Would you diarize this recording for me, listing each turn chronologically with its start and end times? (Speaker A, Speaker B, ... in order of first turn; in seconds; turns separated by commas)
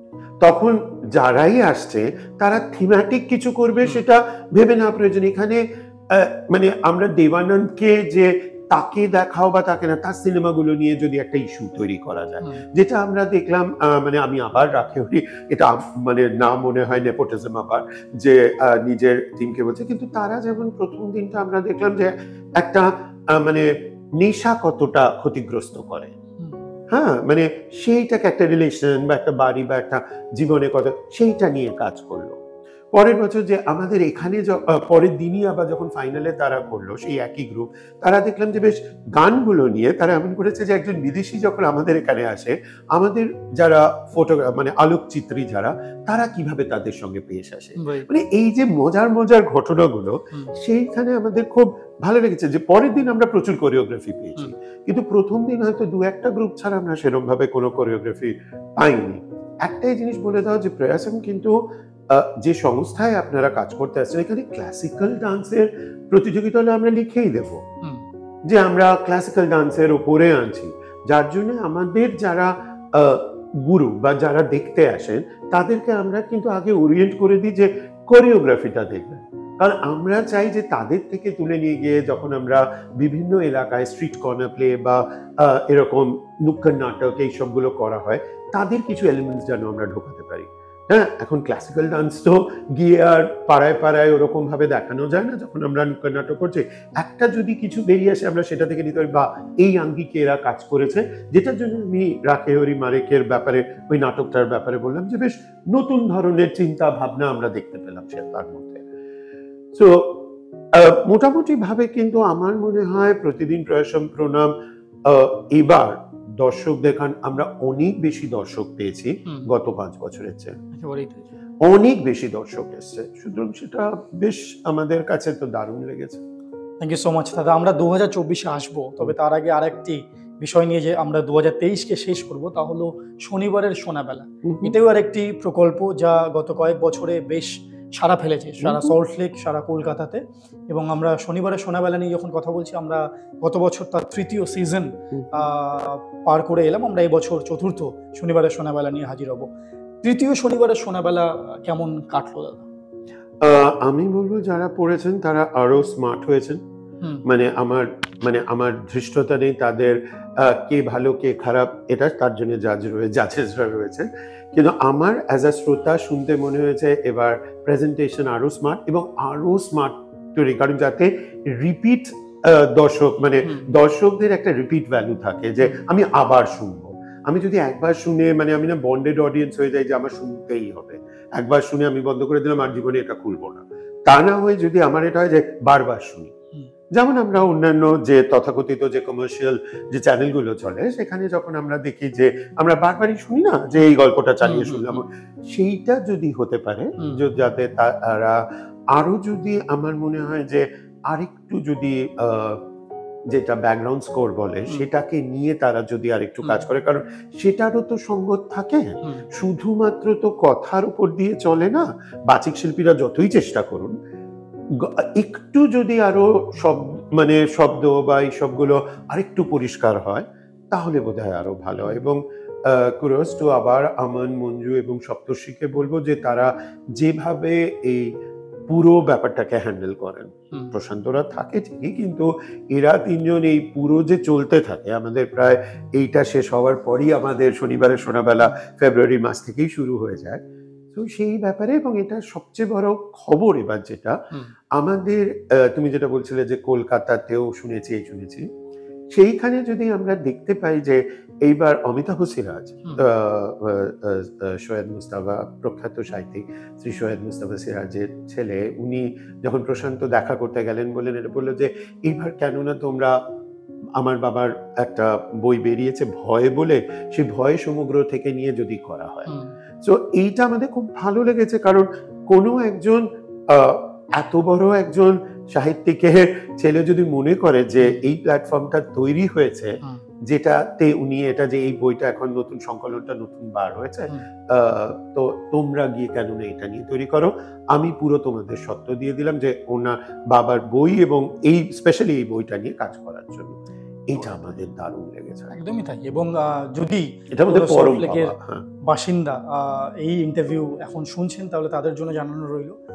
Speaker A: 0.4-26.1, Speaker A: 26.9-32.4, Speaker A: 32.9-61.5, Speaker B: 47.8-48.1, Speaker A: 62.1-67.6, Speaker A: 68.5-108.8, Speaker A: 109.7-114.5, Speaker A: 115.0-120.6, Speaker B: 120.7-121.2, Speaker A: 121.6-126.2, Speaker B: 126.8-149.5, Speaker A: 134.4-134.7, Speaker A: 138.6-138.9, Speaker B: 150.0-152.7, Speaker A: 153.4-156.6, Speaker A: 157.2-186.3, Speaker A: 186.9-198.4, Speaker B: 194.5-194.8, Speaker A: 198.9-202.6, Speaker A: 203.3-213.9, Speaker A: 214.7-228.1, Speaker A: 228.7-244.2, Speaker A: 244.7-248.5, Speaker A: 249.1-263.2, Speaker A: 264.0-269.3, Speaker A: 269.8-295.5, Speaker B: 295.5-302.8, Speaker A: 297.3-298.6